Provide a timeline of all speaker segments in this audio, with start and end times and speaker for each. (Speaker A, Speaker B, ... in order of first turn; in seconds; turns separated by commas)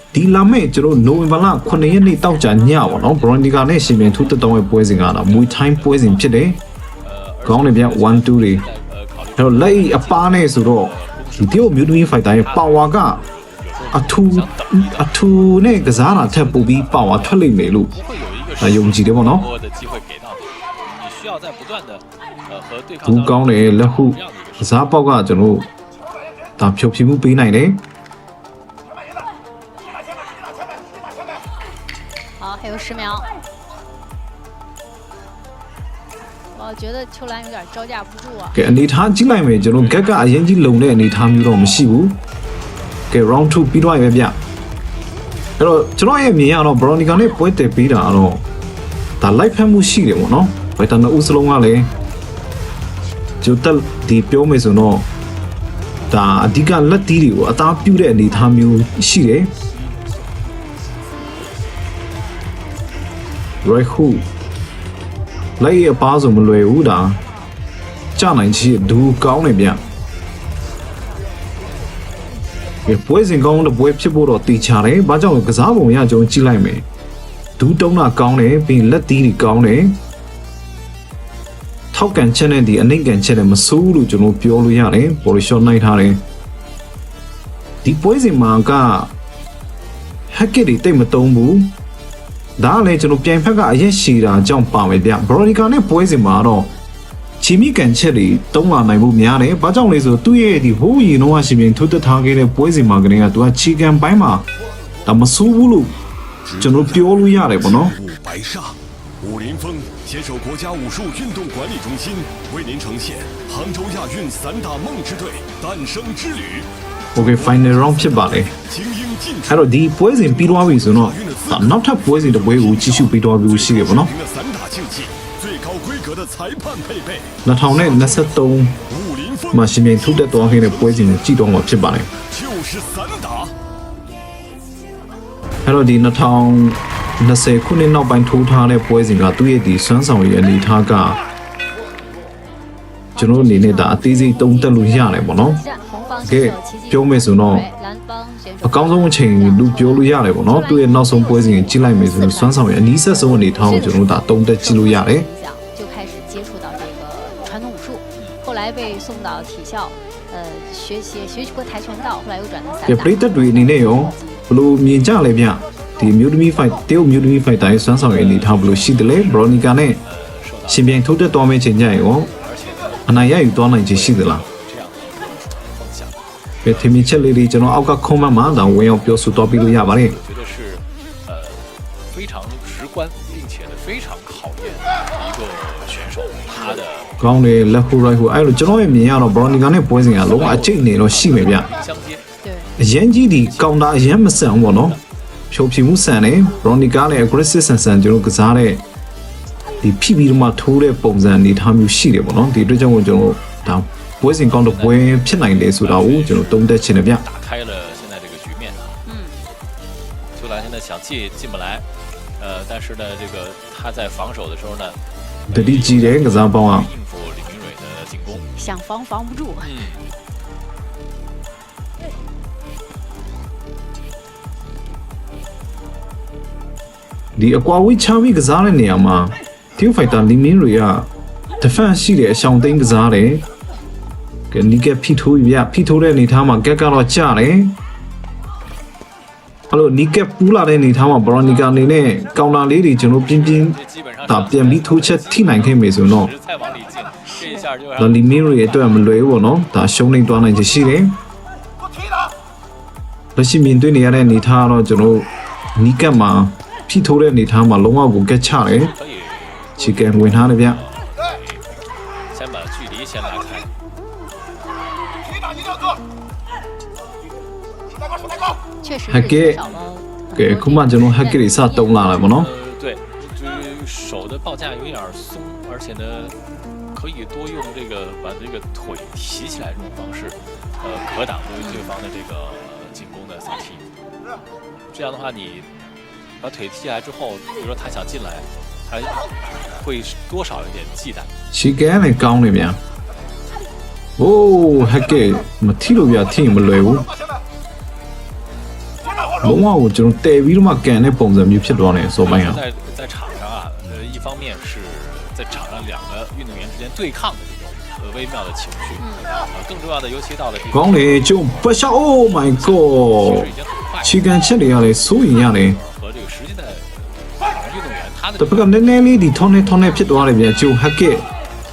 Speaker A: 0.1-6.6, Speaker B: 1.7-2.5, Speaker C: 2.5-4.4, Speaker C: 5.0-6.4, Speaker C: 7.0-24.9, Speaker A: 7.5-8.7, Speaker A: 9.4-13.2, Speaker A: 13.9-17.9, Speaker A: 18.6-19.5, Speaker A: 23.0-25.7, Speaker A: 26.6-27.8, Speaker B: 32.4-33.3, Speaker B: 36.5-38.7, Speaker A: 38.5-42.2, Speaker C: 39.8-40.1, Speaker A: 43.1-44.4, Speaker A: 45.6-48.4, Speaker A: 49.2-51.9, Speaker A: 53.4-55.1, Speaker A: 56.1-59.5, Speaker A: 63.6-64.2, Speaker A: 65.6-67.2, Speaker A: 68.1-69.8, Speaker A: 72.8-76.8, Speaker A: 77.6-80.0, Speaker A: 81.9-86.2, Speaker A: 87.8-89.1, Speaker A: 90.3-91.7, Speaker A: 92.6-96.7, Speaker A: 97.4-104.4, Speaker A: 105.0-106.0, Speaker D: 106.4-133.5, Speaker A: 106.6-107.9, Speaker A: 117.1-118.5, Speaker A: 119.5-124.1, Speaker A: 127.4-128.8, Speaker A: 129.5-132.1, Speaker A: 135.6-141.2, Speaker B: 143.1-152.7, Speaker A: 143.2-145.6, Speaker A: 146.2-147.7, Speaker A: 148.6-155.2, Speaker B: 153.5-164.4, Speaker A: 162.9-170.0, Speaker C: 167.9-171.0, Speaker A: 170.7-172.3, Speaker C: 172.2-177.3, Speaker A: 173.1-174.4, Speaker A: 176.6-180.2, Speaker C: 178.7-187.4, Speaker A: 187.2-191.7, Speaker C: 190.0-192.3, Speaker B: 192.4-192.7, Speaker A: 192.8-195.0, Speaker C: 193.3-194.7, Speaker A: 195.5-198.8, Speaker A: 199.8-207.2, Speaker C: 204.5-209.0, Speaker B: 209.0-209.4, Speaker C: 210.3-211.8, Speaker C: 212.4-218.4, Speaker A: 215.5-216.9, Speaker B: 218.5-219.7, Speaker C: 219.6-220.1, Speaker A: 227.4-231.1, Speaker A: 231.6-233.4, Speaker A: 234.5-237.8, Speaker A: 239.7-246.3, Speaker C: 243.2-249.2, Speaker A: 248.0-251.2, Speaker A: 253.3-258.9, Speaker C: 258.6-261.6, Speaker A: 259.8-260.8, Speaker C: 262.3-263.7, Speaker B: 268.8-272.2, Speaker A: 269.1-269.6, Speaker C: 269.6-269.9, Speaker A: 270.3-272.5, Speaker C: 272.2-276.4, Speaker C: 276.9-283.8, Speaker B: 281.6-281.9, Speaker C: 284.9-285.7, Speaker C: 286.4-291.3, Speaker A: 291.5-292.8, Speaker A: 294.2-297.1, Speaker A: 299.4-302.6, Speaker C: 302.2-318.8, Speaker B: 309.0-309.2, Speaker A: 310.7-313.5, Speaker A: 314.0-315.8, Speaker A: 318.4-321.3